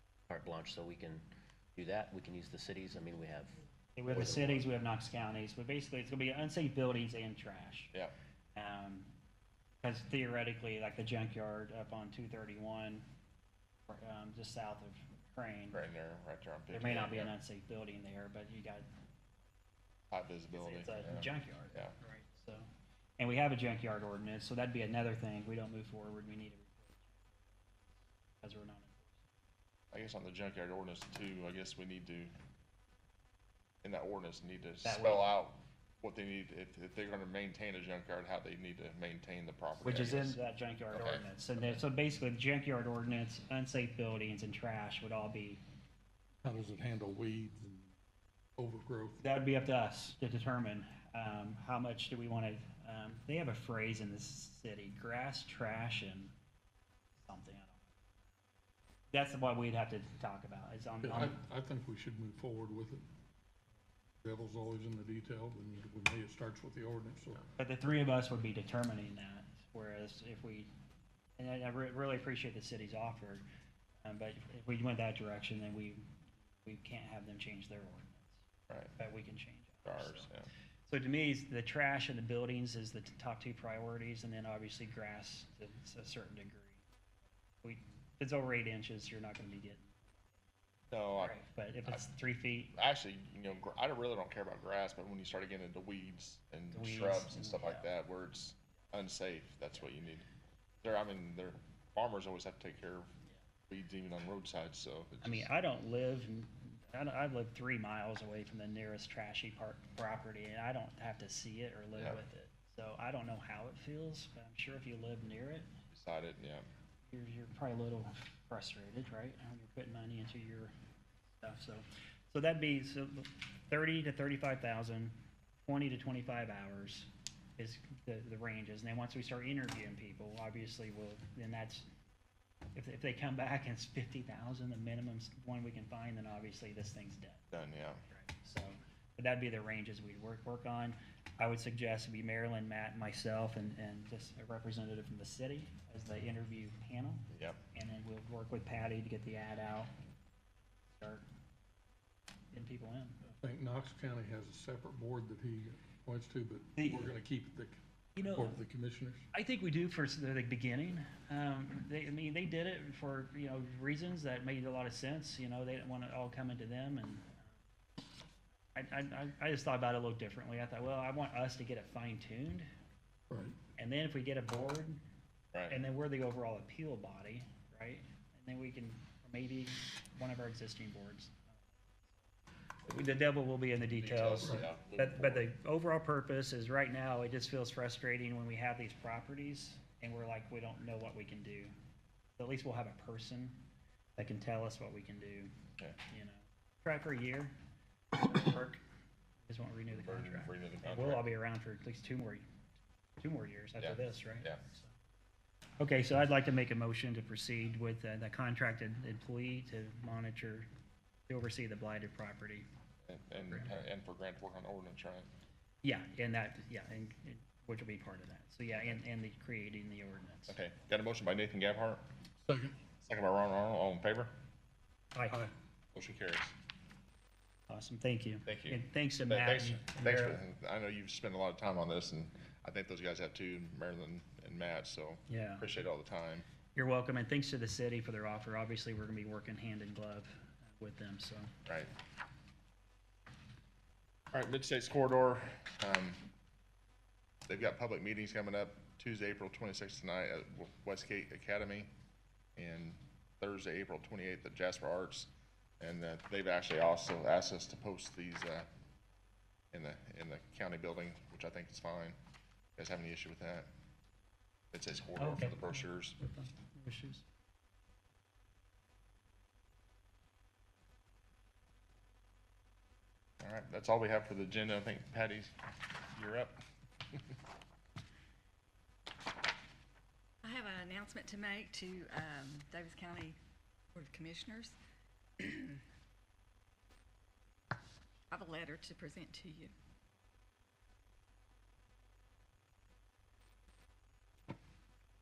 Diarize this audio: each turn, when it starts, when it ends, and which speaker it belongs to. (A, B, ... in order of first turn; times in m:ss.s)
0:00.3-0:04.6 A
0:04.0-0:07.9 B
0:08.5-0:09.1 B
0:09.8-0:13.0 B
0:13.9-0:15.8 B
0:15.7-0:17.3 C
0:16.7-0:18.9 B
0:20.1-0:21.9 C
0:20.5-0:22.7 B
0:23.2-0:27.1 B
0:28.4-0:29.0 B
0:29.9-0:32.3 C
0:33.8-0:40.4 C
0:34.8-0:35.3 B
0:39.8-0:45.6 B
0:40.9-0:41.2 C
0:46.4-0:47.9 D
0:48.6-0:49.2 D
0:49.2-0:56.3 B
0:57.2-0:57.8 B
0:59.1-1:01.4 B
1:01.0-1:03.0 D
1:04.2-1:07.5 D
1:07.6-1:10.7 B
1:11.4-1:13.4 B
1:14.0-1:16.1 B
1:16.6-1:18.3 B
1:18.7-1:18.9 C
1:19.0-1:20.3 B
1:19.8-1:20.5 C
1:20.9-1:26.8 B
1:27.6-1:30.0 B
1:30.9-1:31.3 C
1:31.2-1:32.7 B
1:32.7-1:40.2 C
1:36.7-1:37.9 B
1:40.8-1:43.1 C
1:43.7-1:45.5 C
1:45.2-1:55.7 B
1:52.0-1:52.2 C
1:55.9-1:56.7 C
1:57.1-2:00.7 B
2:01.4-2:11.8 B
2:12.7-2:17.4 B
2:17.5-2:18.0 C
2:18.1-2:29.9 B
2:27.3-2:27.6 C
2:30.9-2:31.2 B
2:32.5-2:33.2 B
2:33.4-2:39.2 D
2:36.8-2:37.1 B
2:38.2-2:38.6 B
2:39.3-2:47.5 B
2:48.7-2:52.7 B
2:53.3-2:53.6 D
2:53.8-2:55.0 B
2:55.5-2:55.9 C
2:55.7-3:01.7 B
3:02.8-3:11.7 B
3:04.0-3:05.5 C
3:12.4-3:13.6 B
3:14.2-3:15.5 B
3:16.1-3:17.5 B
3:18.2-3:18.8 B
3:19.4-3:22.4 B
3:19.9-3:21.3 C
3:23.2-3:24.9 B
3:23.8-3:24.6 C
3:25.8-3:30.7 B
3:31.3-3:32.6 B
3:33.0-3:35.3 C
3:33.4-3:33.7 B
3:35.8-3:40.6 B
3:40.5-3:42.0 C
3:42.4-3:42.8 D
3:43.0-3:44.3 C
3:45.1-3:45.5 B
3:45.9-3:46.5 C
3:47.7-3:50.4 B
3:48.4-3:56.5 C
3:55.3-3:55.7 B
3:56.7-4:01.5 B
4:01.6-4:01.9 C
4:04.3-4:06.3 C
4:07.5-4:11.9 C
4:12.6-4:18.7 C
4:19.7-4:22.2 C
4:22.8-4:23.7 C
4:24.7-4:26.2 C
4:25.2-4:27.2 B
4:33.4-4:36.6 C
4:40.4-4:43.4 E
4:43.9-4:44.7 E
4:45.4-4:45.8 E
4:48.3-4:49.7 E